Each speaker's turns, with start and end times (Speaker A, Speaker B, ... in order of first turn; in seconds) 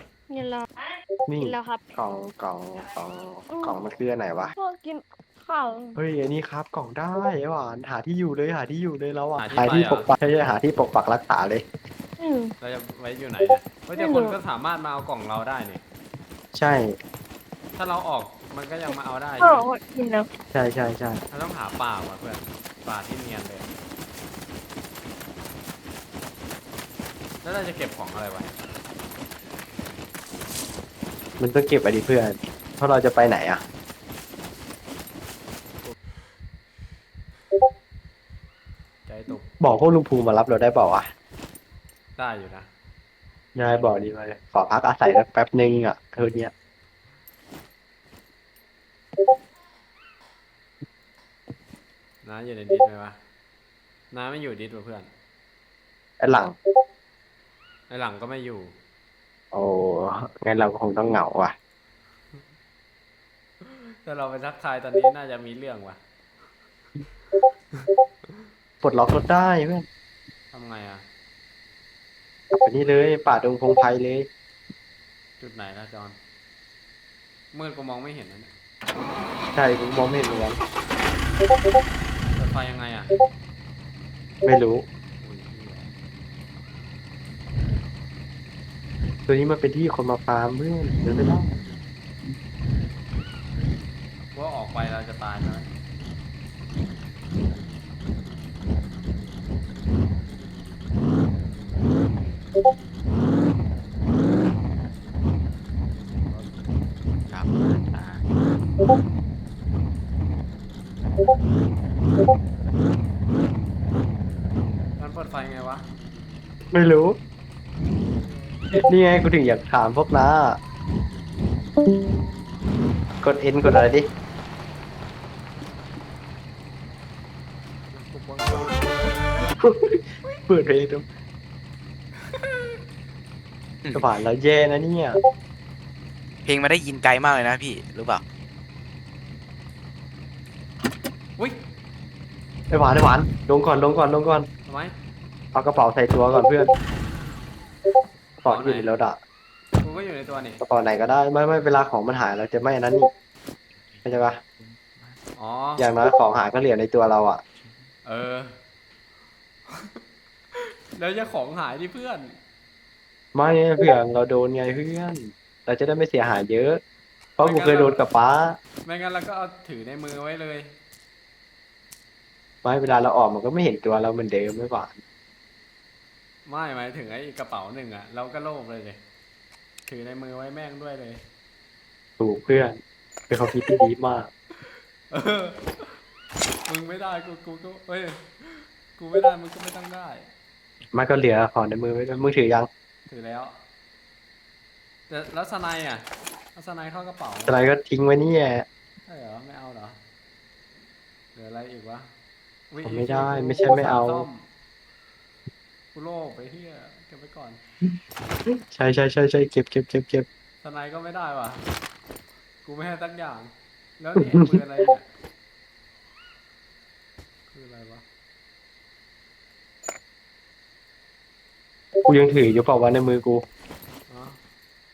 Speaker A: 0.3-0.7, 1.4-1.8, 3.5-3.8, 4.5-6.0, 12.2-12.5, 13.9-14.3, 19.4-20.3
Speaker B: 1.3-4.5, 6.0-11.6, 16.5-16.9, 20.5-21.2, 31.4-33.6, 39.6-41.1, 43.5-46.5, 56.2-56.5, 59.5-61.5, 68.8-69.8, 72.5-74.3, 79.5-80.6, 84.4-84.8, 89.3-91.5, 116.7-117.2, 118.7-120.6, 123.2-124.1, 129.6-131.1, 133.9-135.2, 142.7-144.5, 145.5-146.7, 148.4-149.2, 150.6-153.1, 154.0-154.4, 155.8-157.4, 163.3-166.8, 167.4-168.6, 172.6-175.0, 182.2-184.3, 190.9-192.7, 197.5-198.7, 202.8-204.2, 208.5-210.3, 214.3-214.6, 222.0-223.4
Speaker C: 9.4-10.1, 12.6-15.8, 17.8-19.6, 21.3-23.7, 27.4-28.6, 39.0-39.5, 42.1-42.7, 52.2-53.2, 54.1-55.1, 57.9-58.7, 63.6-66.0, 70.5-71.0, 75.4-76.2, 77.5-78.5, 82.3-83.1, 85.2-85.9, 94.3-95.7, 106.2-106.5, 115.0-115.9, 118.3-118.6, 127.9-129.1, 144.7-144.9, 148.4-148.9, 149.8-150.6, 155.3-155.9, 158.0-158.6, 159.7-160.0, 160.5-162.4, 167.4-168.0, 168.8-170.7, 176.4-179.0, 179.9-181.2, 185.1-186.0, 186.7-190.3, 193.1-193.6, 195.1-197.6, 199.1-200.0, 201.3-202.1, 202.7-204.5, 205.9-207.6, 210.6-211.6, 212.6-215.1, 217.5-218.0, 224.1-224.4
Speaker D: 107.3-108.2, 136.4-138.2, 153.9-155.2